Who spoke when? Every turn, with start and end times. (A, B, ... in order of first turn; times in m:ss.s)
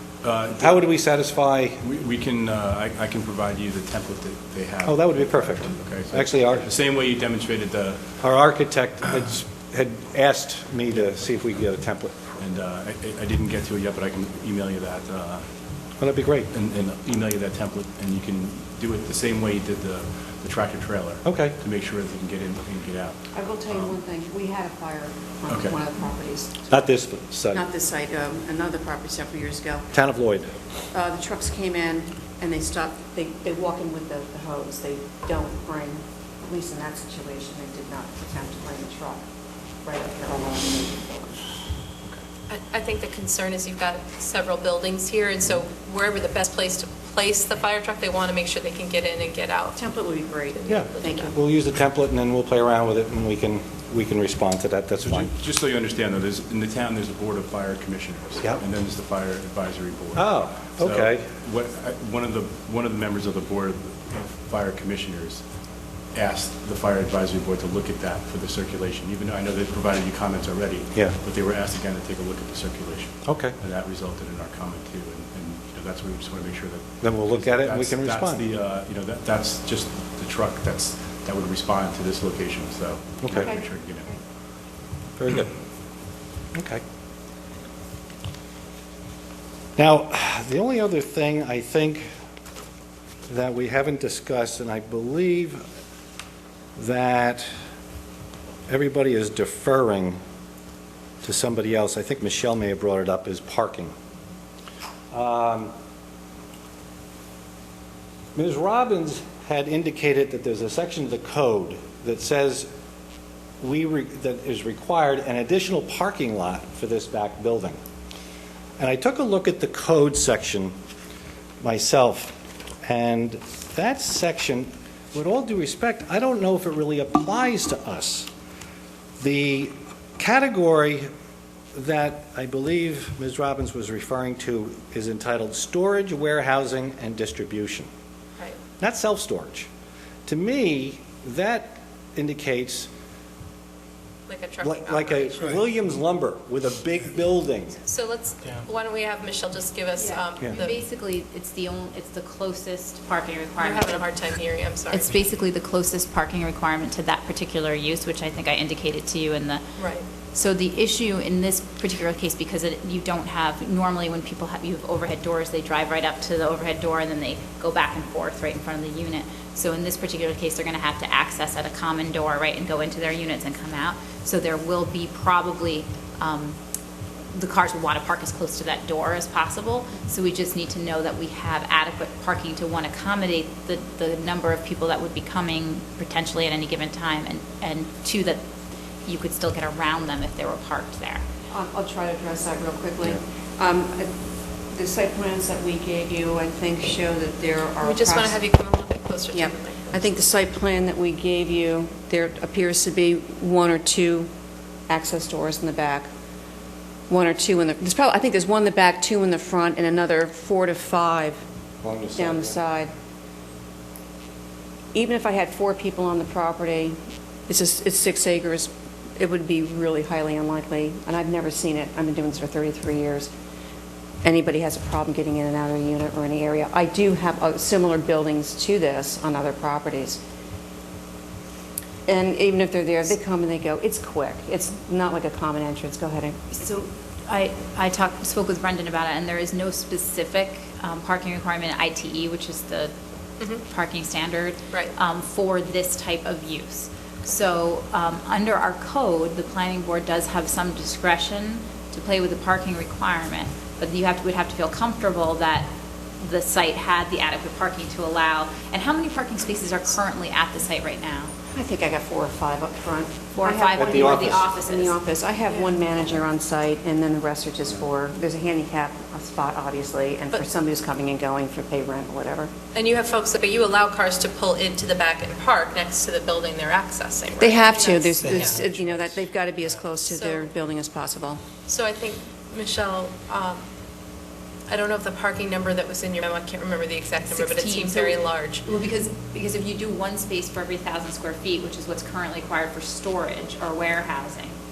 0:00.2-0:00.9 A
0:00.6-0:01.8 B
0:01.8-0:08.0 A
0:04.8-0:06.7 B
0:08.2-0:12.2 B
0:12.4-0:15.4 A
0:16.0-0:16.5 B
0:16.5-0:24.0 A
0:21.2-0:21.6 B
0:23.3-0:26.7 C
0:25.5-0:25.8 A
0:26.7-0:27.6 B
0:27.5-0:29.9 C
0:29.9-0:30.5 B
0:30.9-0:39.2 C
0:39.8-0:41.5 C
0:42.5-0:49.8 D
0:49.7-0:51.4 C
0:50.5-0:51.3 D
0:50.7-0:55.3 B
0:55.0-1:05.4 A
1:00.1-1:01.2 B
1:06.1-1:24.1 A
1:13.2-1:13.6 B
1:17.0-1:18.4 B
1:23.2-1:23.5 B
1:23.3-1:24.2 C
1:25.2-1:25.5 B
1:26.5-1:26.8 B
1:29.8-1:32.0 B
1:33.3-1:35.6 B
1:36.8-1:37.5 B
1:38.7-1:40.2 B
1:41.2-1:43.9 B
1:45.1-1:45.7 B
1:48.3-1:52.7 B
1:53.6-1:57.8 B
1:58.8-2:00.7 B
2:01.6-2:08.3 B
2:09.2-2:11.1 B
2:11.7-2:17.9 B
2:18.8-2:19.7 B
2:20.2-2:22.9 B
2:24.3-2:25.6 D
2:24.6-2:27.8 B
2:27.9-2:30.8 D
2:30.0-2:34.1 E
2:33.6-2:35.3 D
2:34.9-2:39.6 E
2:39.8-2:40.0 D
2:40.3-2:56.6 E
2:57.3-3:08.4 E
3:09.0-3:11.2 E
3:11.5-3:14.1 C
3:14.7-3:18.4 C
3:17.8-3:20.1 D
3:19.3-3:24.3 C
3:24.9-3:26.1 C
3:27.1-3:31.4 C
3:31.8-3:32.6 B
3:32.2-3:32.9 C
3:34.9-3:43.3 C
3:44.2-3:50.2 C
3:52.0-3:56.4 C
3:56.5-4:02.9 E
4:03.6-4:15.7 E
4:04.7-4:05.0 D
4:16.2-4:21.3 E
4:21.5-4:32.5 C
4:23.3-4:25.0 E
4:23.8-4:24.0 B
4:25.5-4:25.8 D
4:32.7-4:38.6 D
4:37.4-4:41.4 C
4:40.0-4:40.5 D
4:41.6-4:43.6 D
4:44.7-4:48.6 D
4:47.3-4:54.6 E